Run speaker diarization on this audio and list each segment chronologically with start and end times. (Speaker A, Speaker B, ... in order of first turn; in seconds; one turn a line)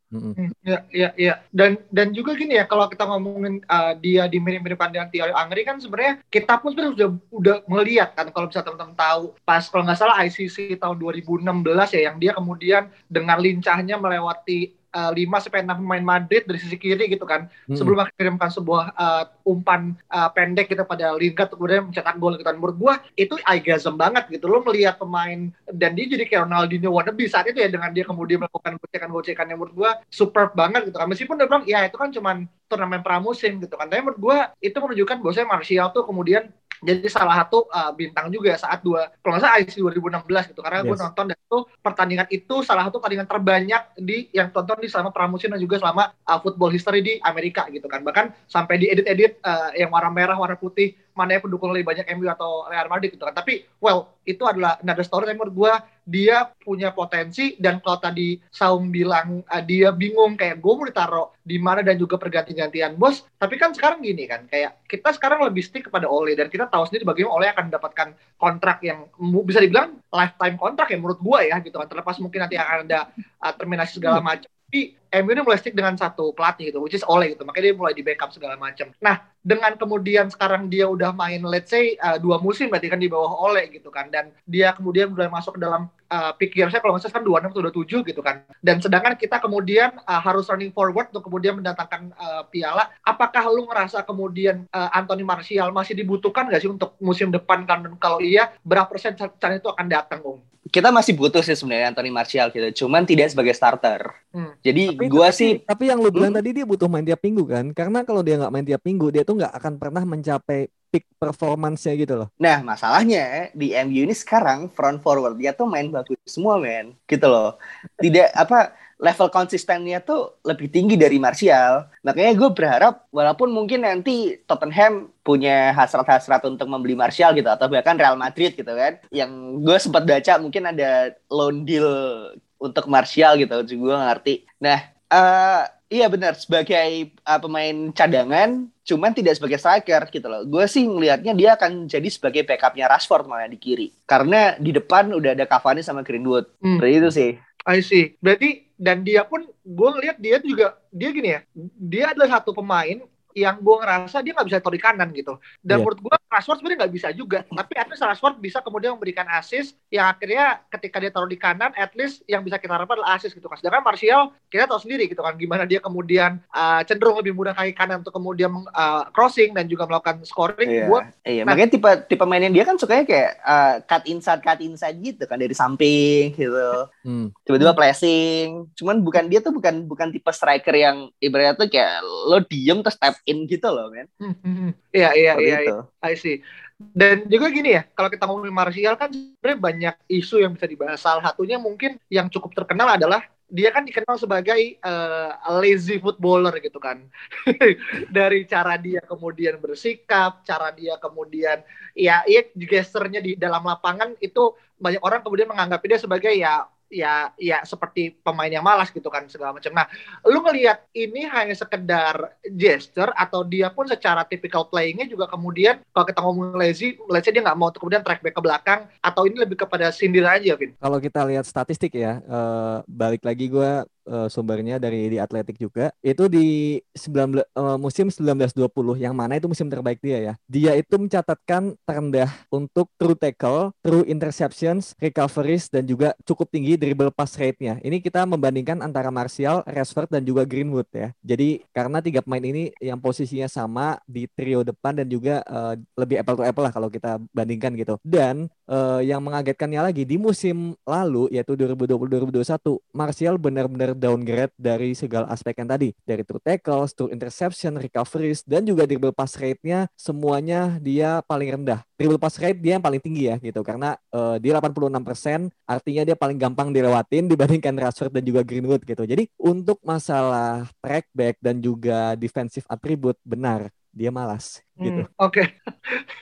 Speaker A: 0.1-0.4
Speaker B: 0.4-100.4
Speaker A: 17.7-17.9
Speaker A: 40.8-41.0
Speaker C: 100.7-104.0
Speaker C: 104.7-105.6
Speaker A: 104.9-112.3
Speaker C: 112.4-147.3
Speaker B: 147.7-171.6
Speaker C: 170.7-176.8
Speaker A: 177.0-177.3
Speaker C: 177.5-184.1
Speaker B: 184.2-186.4
Speaker C: 185.3-185.8
Speaker B: 187.0-220.7
Speaker A: 220.8-275.1
Speaker B: 274.8-276.0